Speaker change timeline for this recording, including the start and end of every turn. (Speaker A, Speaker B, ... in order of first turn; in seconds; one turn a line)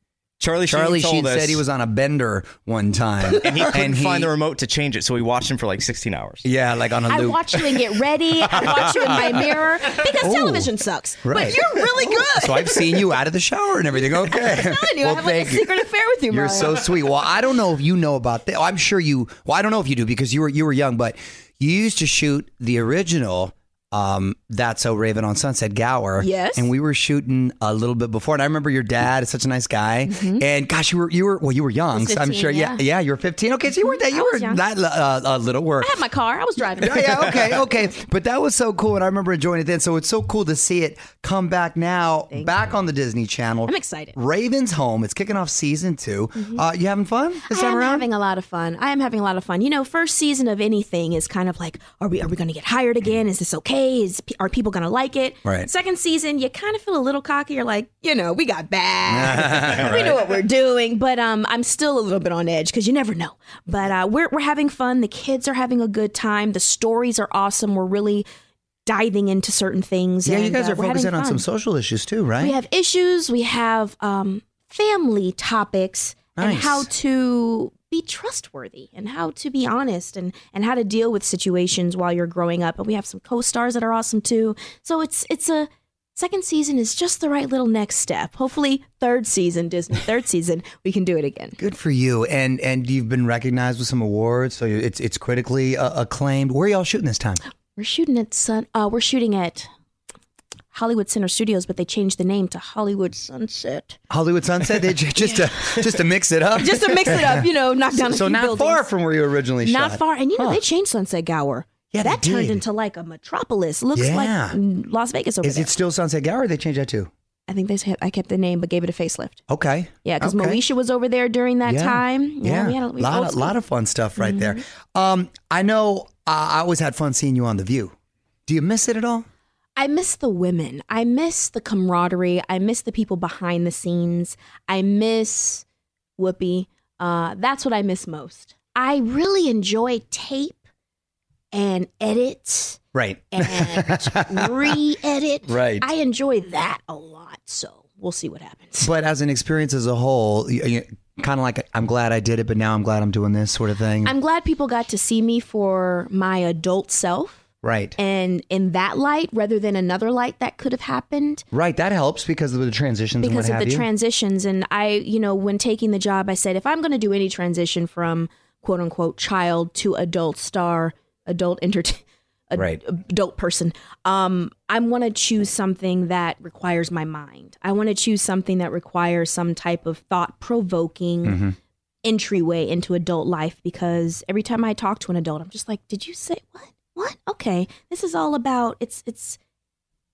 Speaker A: 0.4-1.6
Speaker B: 0.7-4.3
Speaker A: 3.4-6.5
Speaker B: 6.4-7.7
Speaker C: 7.1-13.0
Speaker B: 8.6-9.4
Speaker B: 10.2-10.7
Speaker B: 11.2-15.7
Speaker C: 14.2-16.9
Speaker B: 16.3-36.0
Speaker C: 26.2-26.7
Speaker C: 30.1-30.4
Speaker C: 31.9-32.8
Speaker C: 33.8-34.6
Speaker C: 35.8-37.6
Speaker B: 36.8-48.1
Speaker C: 43.7-44.1
Speaker C: 46.4-46.6
Speaker C: 47.5-68.3
Speaker B: 55.5-55.7
Speaker B: 59.1-60.2
Speaker C: 68.9-71.5
Speaker B: 70.2-72.6
Speaker C: 72.4-91.6
Speaker B: 76.4-76.9
Speaker B: 91.6-97.4
Speaker C: 97.8-99.7
Speaker C: 100.7-104.0
Speaker B: 104.1-110.6
Speaker C: 105.2-105.5
Speaker C: 106.6-108.9
Speaker C: 109.6-115.7
Speaker B: 111.9-112.6
Speaker B: 114.0-114.6
Speaker B: 115.4-117.1
Speaker C: 117.5-119.4
Speaker B: 119.5-120.6
Speaker C: 120.0-123.6
Speaker B: 121.7-127.9
Speaker C: 124.2-124.6
Speaker B: 128.5-129.3
Speaker C: 129.8-135.7
Speaker C: 136.2-140.6
Speaker C: 141.5-142.8
Speaker B: 142.9-144.8
Speaker C: 143.3-148.9
Speaker B: 145.5-145.9
Speaker B: 148.8-154.1
Speaker C: 154.0-157.4
Speaker B: 157.6-158.0
Speaker C: 158.0-161.4
Speaker B: 161.5-163.9
Speaker C: 163.2-181.4
Speaker B: 172.5-172.8
Speaker B: 181.2-181.5
Speaker C: 182.0-189.4